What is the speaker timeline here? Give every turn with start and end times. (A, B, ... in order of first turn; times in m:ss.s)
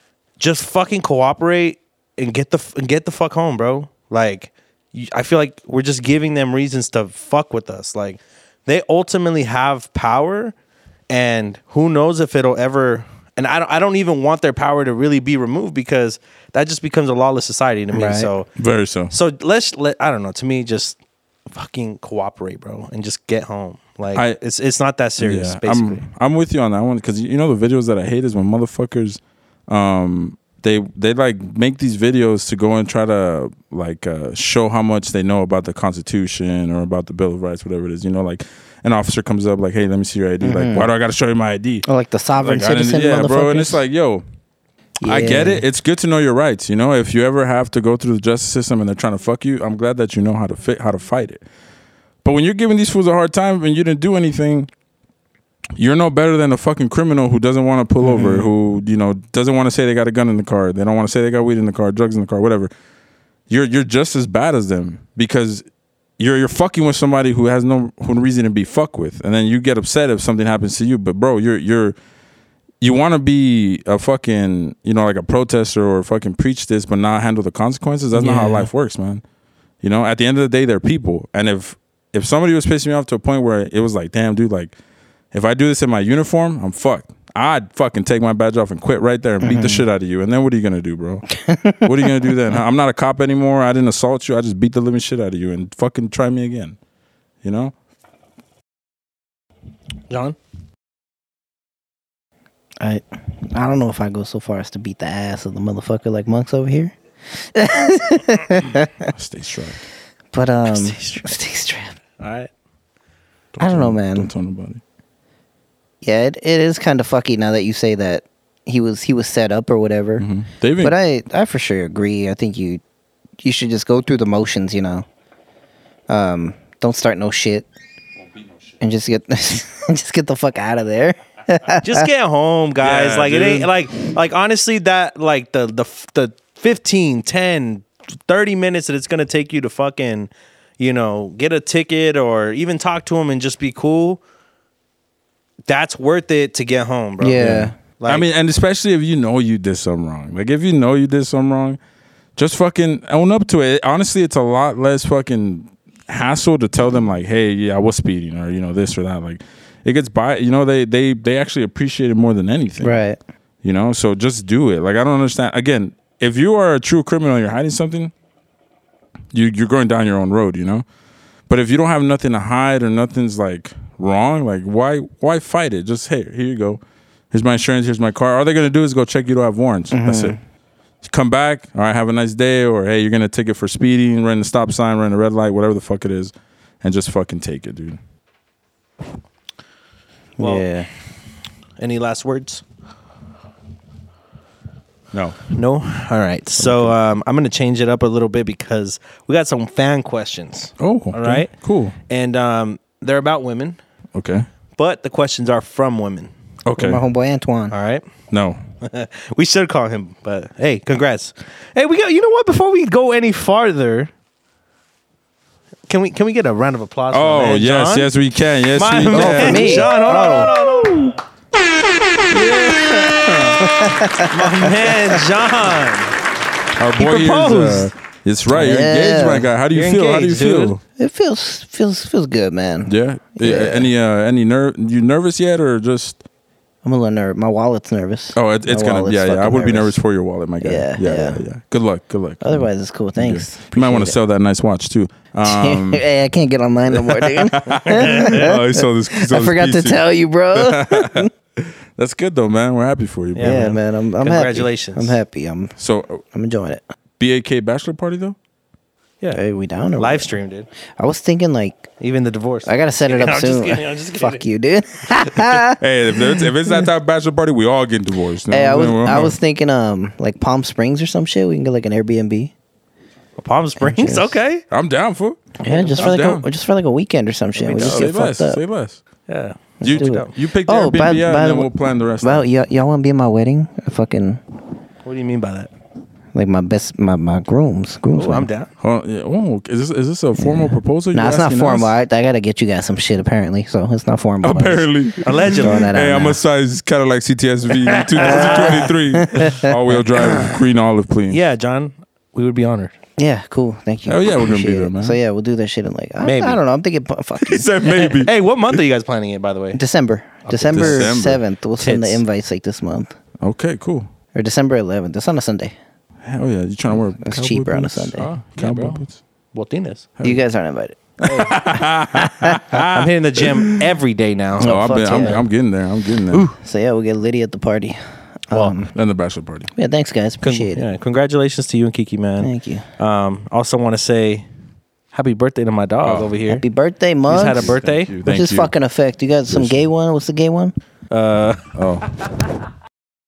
0:00.4-0:10.6 A
0:11.1-0:18.5 A
0:17.9-0:18.3 B
0:18.6-0:19.1 C
0:19.1-0:21.0 A
0:21.5-0:26.1 A
0:25.2-0:41.9 C
0:40.4-0:40.9 B
0:41.8-0:43.8 B
0:42.4-0:44.2 C
0:45.0-0:45.6 B
0:45.0-0:51.4 C
0:52.2-0:54.7 C
0:55.8-1:02.7 C
0:58.0-0:58.5 B
1:03.5-1:05.6 C
1:06.2-1:12.0 C
1:12.8-1:19.2 C
1:18.2-1:18.7 B
1:19.8-1:24.7 C
1:25.3-1:31.2 C
1:29.4-1:29.8 B
1:31.4-1:32.6 B
1:31.8-1:36.8 C
1:37.4-1:37.7 C
1:40.1-1:40.4 A
1:42.8-1:46.9 B
1:47.5-1:49.1 B
1:49.1-1:49.8 C
1:50.3-1:52.0 B
1:50.6-1:51.3 A
1:52.2-1:52.5 A
1:53.5-1:54.8 C
1:53.6-1:54.3 B
1:56.0-2:00.2 B
2:00.2-2:01.0 C
2:00.8-2:02.8 B
2:03.4-2:05.1 B
2:06.1-2:07.7 B
2:08.8-2:11.9 B
2:11.8-2:24.2 A
2:12.8-2:13.7 C
2:25.7-2:28.3 A
2:27.2-2:27.8 B
2:27.4-2:31.8 C
2:32.4-2:43.0 C
2:42.8-2:43.2 B
2:43.6-2:48.1 C
2:49.3-2:50.8 C
2:51.5-3:00.4 C
2:59.9-3:00.4 B
3:01.0-3:08.0 C
3:10.4-3:10.9 B
3:10.4-3:10.7 A
3:11.8-3:12.6 A
3:15.1-3:15.4 C
3:15.5-3:21.5 A
3:16.6-3:17.0 C
3:20.8-3:22.0 C
3:22.1-3:23.8 A
3:24.2-3:24.5 C
3:24.8-3:26.3 A
3:26.6-3:27.0 C
3:26.8-3:27.8 B
3:27.7-3:28.1 A
3:28.3-3:28.6 C
3:28.8-3:34.1 A
3:35.9-3:38.1 A
3:37.1-3:39.9 C
3:38.7-3:41.2 A
3:39.1-3:40.6 B
3:42.3-3:43.7 C
3:42.3-3:43.6 A
3:43.6-3:44.7 B
3:44.2-3:46.2 A
3:46.8-3:50.8 C
3:47.0-3:47.9 A
3:48.5-3:49.5 B
3:49.7-3:50.8 A
3:51.0-3:53.9 B
3:52.9-3:56.2 C
3:56.8-4:00.0 B
3:58.3-4:02.6 C
4:00.6-4:01.4 B
4:02.4-4:04.2 B
4:03.2-4:06.0 C
4:05.4-4:11.3 B
4:06.9-4:13.8 C
4:07.9-4:08.5 A
4:13.4-4:15.2 A
4:13.4-4:15.8 B
4:15.8-4:16.2 C
4:16.3-4:16.8 B
4:17.2-4:18.4 C
4:19.3-4:20.3 B
4:20.0-4:20.7 A
4:21.0-4:21.9 B
4:22.0-4:24.4 A
4:22.7-4:26.8 B
4:25.5-4:29.4 C
4:28.5-4:32.5 B
4:33.4-4:34.6 A
4:33.8-4:34.4 B
4:34.7-4:36.5 C
4:35.6-4:38.6 B
4:35.7-4:36.2 A
4:37.6-4:38.1 A
4:37.7-4:39.0 C
4:39.3-4:40.3 A
4:39.8-4:44.4 B
4:39.8-4:42.5 C
4:45.0-4:45.7 A
4:46.3-4:48.5 B
4:48.1-4:48.7 A
4:48.8-4:52.0 C
4:50.4-4:54.9 B
4:54.4-5:01.4 C
4:55.2-4:55.9 A
4:55.5-4:56.4 B
4:57.9-4:58.9 A
4:58.2-5:00.6 B
5:01.3-5:02.9 A
5:03.2-5:07.7 B
5:04.1-5:05.2 C
5:06.2-5:06.6 A
5:07.4-5:08.3 C
5:07.9-5:09.8 A
5:09.8-5:13.1 B
5:10.4-5:11.1 A
5:10.7-5:11.4 C
5:11.8-5:12.2 A
5:13.4-5:14.1 C
5:14.3-5:15.8 B
5:16.2-5:19.2 C
5:17.2-5:18.3 B
5:18.2-5:19.0 A
5:19.5-5:20.1 A
5:20.2-5:21.0 B
5:21.2-5:21.6 A
5:21.2-5:23.9 C
5:22.2-5:22.6 B
5:22.7-5:25.4 A
5:24.6-5:26.5 C
5:24.6-5:25.4 B
5:26.3-5:26.6 A
5:26.6-5:28.9 B
5:28.5-5:28.8 A
5:28.9-5:29.7 C
5:29.8-5:30.8 B
5:30.4-5:34.5 A
5:32.4-5:32.8 B
5:35.1-5:36.6 A
5:36.0-5:36.3 C
5:36.5-5:40.8 B
5:37.3-5:38.1 A
5:37.5-5:38.7 C
5:39.5-5:39.9 C
5:41.1-5:41.8 A
5:41.8-5:42.1 C